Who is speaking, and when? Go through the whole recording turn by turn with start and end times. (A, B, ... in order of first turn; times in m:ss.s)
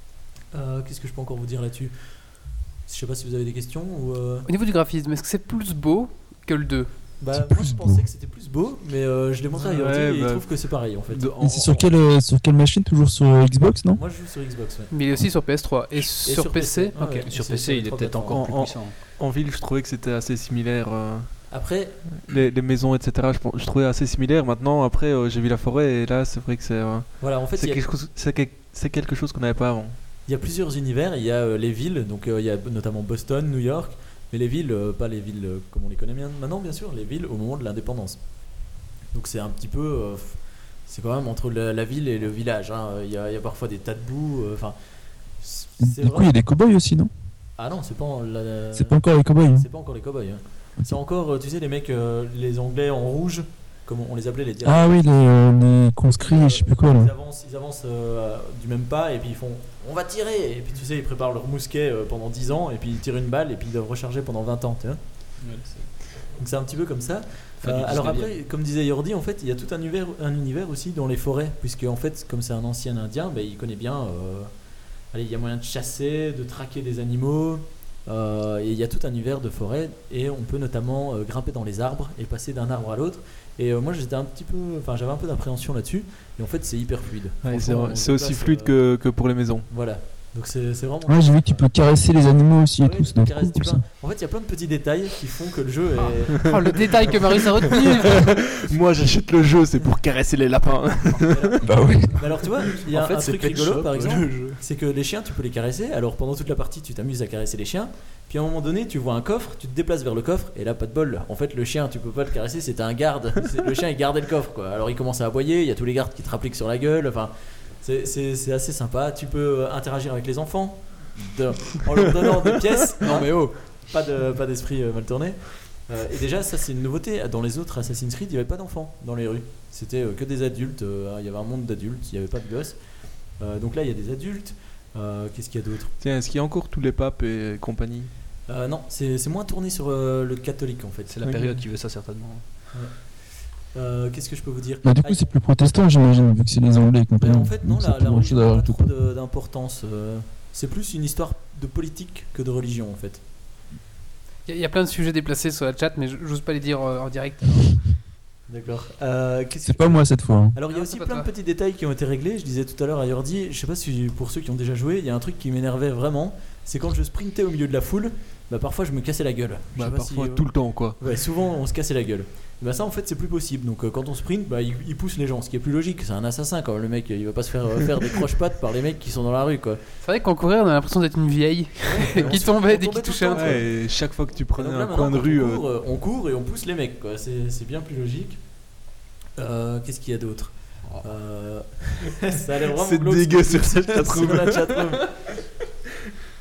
0:00.5-0:04.5 A
0:04.4-0:06.9 B
0:07.2-0:11.5 A
0:07.3-0:08.1 C
0:09.5-0:11.8 D
0:11.4-0:14.0 C
0:13.9-0:15.3 A
0:14.9-0:17.3 B
0:15.9-0:18.7 A
0:17.2-0:18.9 E
0:18.3-0:21.4 D
0:21.5-0:22.0 A
0:22.1-0:30.0 D
0:27.2-0:27.8 A
0:30.2-0:38.3 A
0:39.1-0:44.8 A
0:45.3-0:46.4 A
0:45.8-0:47.1 C
0:47.6-0:55.1 A
0:48.7-0:49.7 C
0:54.6-0:57.1 C
0:56.2-1:05.0 A
1:05.4-1:05.9 E
1:06.3-1:14.6 A
1:07.6-1:08.3 E
1:15.1-1:29.0 A
1:27.4-1:29.7 D
1:29.7-1:31.8 A
1:31.1-1:33.8 C
1:32.8-1:37.2 A
1:36.3-1:37.3 D
1:36.4-1:38.2 B
1:38.1-1:42.0 D
1:41.1-2:15.9 A
1:41.6-1:42.2 C
1:42.9-1:44.5 E
1:44.2-1:44.6 D
2:03.0-2:03.4 E
2:16.0-2:18.1 D
2:18.5-2:21.7 A
2:21.1-2:22.4 E
2:22.7-2:25.3 A
2:24.8-2:28.9 C
2:27.2-2:33.2 A
2:34.4-2:37.9 B
2:38.5-2:59.8 A
2:39.6-2:40.6 C
2:40.7-2:41.3 B
2:49.7-2:51.0 D
3:00.0-3:03.6 B
3:01.8-3:08.4 A
3:02.1-3:02.4 D
3:03.3-3:05.6 D
3:09.4-3:15.2 A
3:12.7-3:15.3 D